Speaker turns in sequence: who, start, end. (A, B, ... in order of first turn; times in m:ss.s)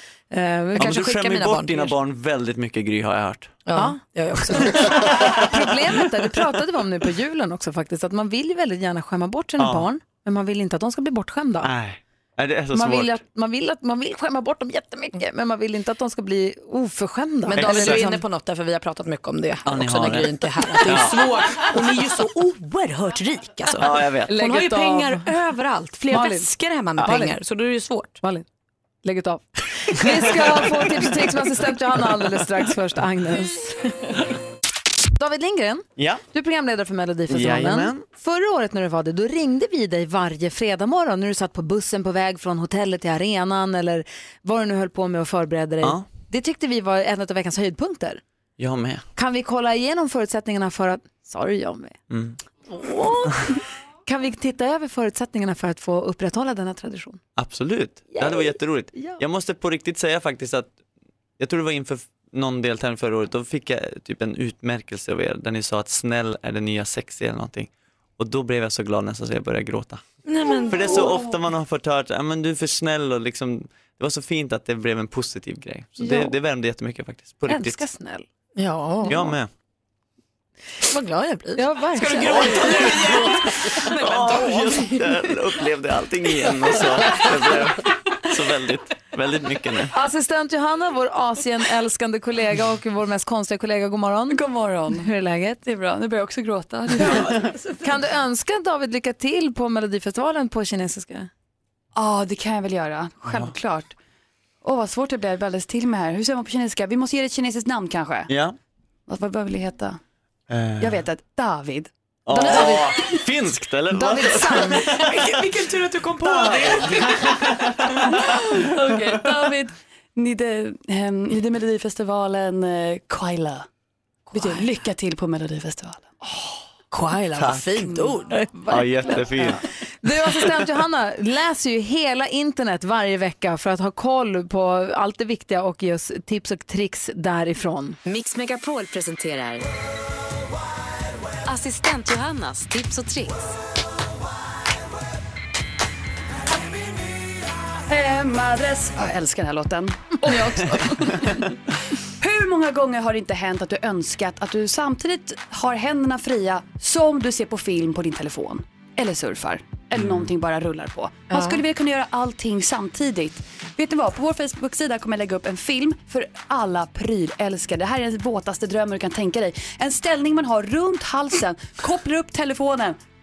0:00.3-0:01.9 A
0:00.8-0:03.6 B
0:03.6-0:05.0 C
0:04.7-0:11.7 A
0:09.6-0:09.9 B
0:11.6-0:13.2 B
0:12.7-0:18.2 A
0:17.5-0:28.2 C
0:17.6-0:18.0 B
0:19.7-0:21.6 B
0:23.8-0:24.3 B
0:24.3-0:25.3 A
0:26.1-0:26.5 A
0:27.0-0:27.4 A
0:28.2-0:28.5 A
0:29.0-0:33.9 A
0:35.2-0:48.2 A
0:36.0-0:36.2 B
0:37.3-0:38.0 B
0:48.6-0:49.0 B
0:49.2-0:52.0 A
0:52.1-0:52.4 B
0:52.8-0:53.5 A
0:54.1-0:57.2 A
0:57.4-1:00.7 B
0:58.1-0:59.2 A
1:01.4-1:17.8 B
1:10.2-1:11.3 C
1:16.0-1:16.3 A
1:17.5-1:18.2 A
1:18.6-1:19.3 C
1:19.1-1:19.5 B
1:20.8-1:25.2 C
1:21.6-1:23.1 A
1:22.3-1:29.9 B
1:26.8-1:27.2 C
1:29.9-1:35.6 A
1:34.3-1:37.5 D
1:37.0-1:37.5 B
1:37.8-1:41.3 A
1:42.0-1:44.0 D
1:43.2-1:43.5 B
1:44.6-1:48.3 D
1:48.3-1:48.6 B
1:49.1-1:50.0 D
1:50.5-1:51.0 B
1:50.8-1:53.2 D
1:52.3-1:55.4 B
1:52.4-1:53.0 A
1:53.9-1:54.8 A
1:55.0-1:57.2 C
1:56.2-1:58.1 B
1:58.3-1:59.6 D
2:00.2-2:03.7 D
2:04.3-2:06.6 D
2:04.4-2:04.8 C
2:06.9-2:08.7 C
2:07.4-2:07.7 B
2:08.6-2:18.0 A
2:08.7-2:09.6 B
2:18.0-2:19.7 E
2:21.5-2:23.5 E
2:27.9-2:53.0 D
2:30.3-2:31.2 A
2:40.0-2:40.3 B
2:41.3-2:41.6 C